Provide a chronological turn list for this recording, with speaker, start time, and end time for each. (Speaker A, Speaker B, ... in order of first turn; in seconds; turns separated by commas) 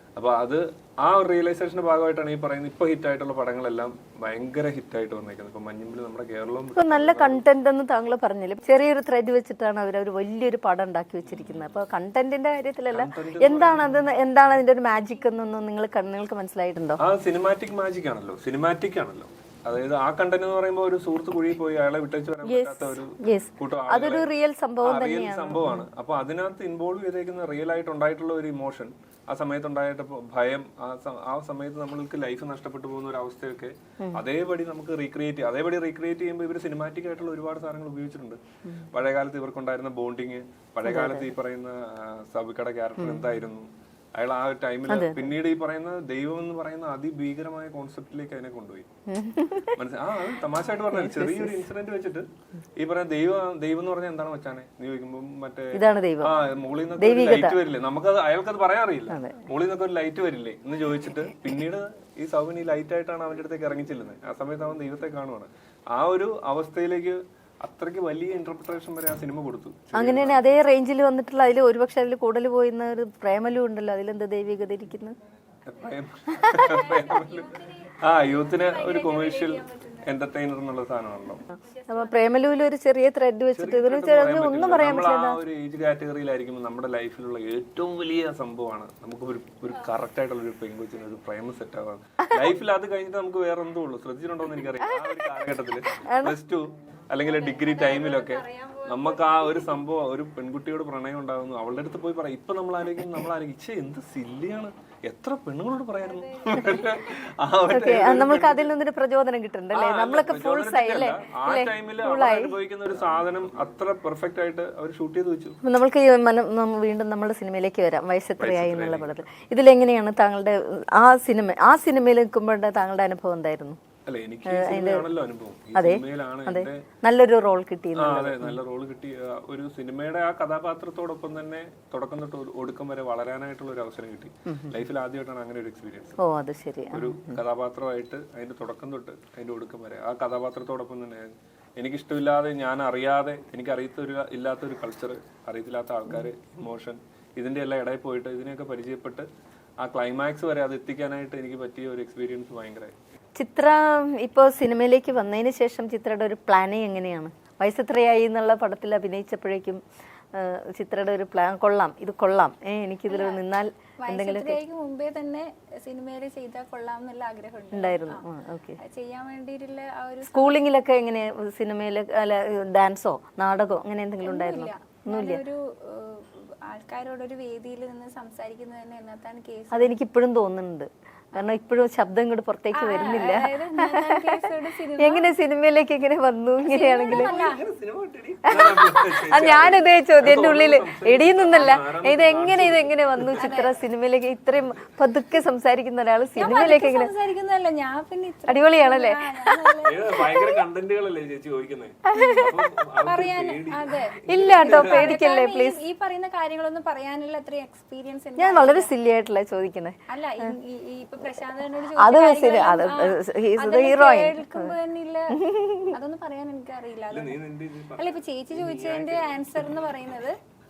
Speaker A: 0.2-7.4, Speaker B: 6.8-17.0, Speaker A: 11.3-11.8, Speaker A: 12.9-14.0, Speaker A: 17.0-24.3, Speaker B: 22.4-25.9, Speaker A: 24.8-48.9, Speaker B: 40.9-41.3, Speaker B: 44.9-45.4, Speaker B: 49.1-49.8, Speaker A: 49.7-70.4, Speaker B: 50.9-51.7, Speaker B: 55.7-56.3, Speaker B: 57.0-57.6, Speaker B: 59.1-59.5, Speaker B: 69.9-75.2, Speaker A: 75.7-81.5, Speaker B: 76.4-76.9, Speaker C: 76.5-80.1, Speaker C: 81.6-82.3, Speaker B: 81.9-85.4, Speaker A: 83.5-108.8, Speaker B: 95.9-96.4, Speaker C: 97.2-99.7, Speaker C: 106.0-107.1, Speaker B: 107.7-112.6, Speaker A: 109.7-115.6, Speaker B: 115.6-123.8, Speaker A: 118.4-119.2, Speaker A: 124.1-126.8, Speaker B: 124.5-125.1, Speaker B: 125.8-128.6, Speaker A: 128.0-136.2, Speaker B: 134.5-134.8, Speaker B: 136.2-137.4, Speaker A: 136.9-149.3, Speaker A: 149.8-152.9, Speaker B: 153.4-159.8, Speaker B: 160.3-164.6, Speaker C: 163.1-163.4, Speaker C: 164.0-168.2, Speaker B: 167.7-168.8, Speaker C: 168.8-170.6, Speaker B: 170.2-175.4, Speaker C: 174.2-179.9, Speaker B: 179.7-184.5, Speaker C: 182.7-185.3, Speaker B: 185.0-187.3, Speaker C: 186.6-187.6, Speaker A: 187.1-193.6, Speaker B: 188.5-197.1, Speaker C: 193.4-193.7, Speaker C: 196.4-200.5, Speaker B: 198.5-199.6, Speaker A: 199.8-205.2, Speaker B: 202.1-202.7, Speaker C: 203.1-208.9, Speaker B: 204.3-205.8, Speaker B: 208.4-210.6, Speaker C: 210.1-215.4, Speaker B: 212.0-214.8, Speaker B: 215.3-216.0, Speaker C: 215.9-217.4, Speaker A: 217.1-219.9, Speaker C: 218.0-220.4